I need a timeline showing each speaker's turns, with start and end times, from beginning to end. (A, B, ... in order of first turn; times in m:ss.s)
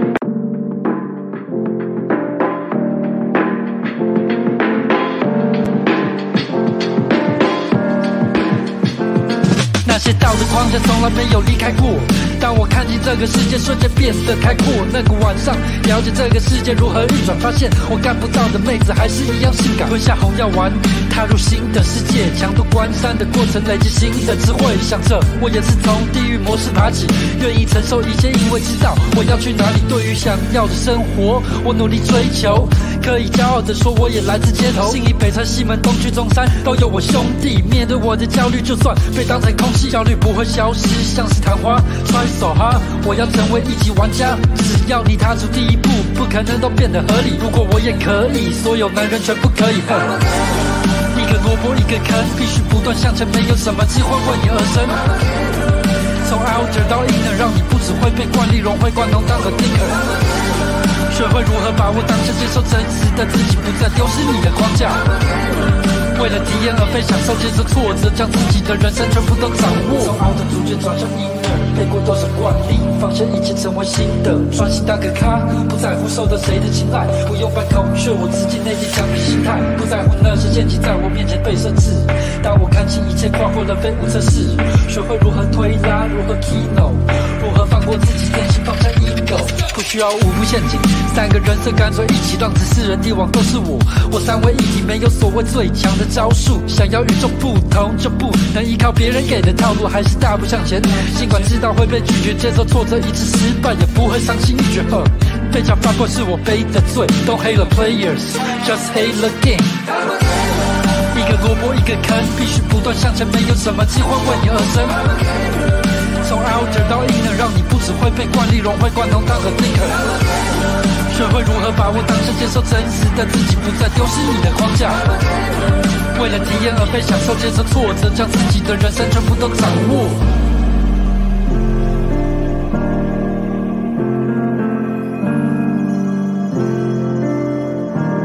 0:09.8-0:50.2 A
0:51.1-0:55.0 A
0:56.2-1:00.1 A
1:01.1-1:05.0 A
1:06.1-1:49.8 A
1:51.1-1:55.0 A
1:56.2-2:00.1 A
2:01.1-2:05.1 A
2:06.1-2:10.2 A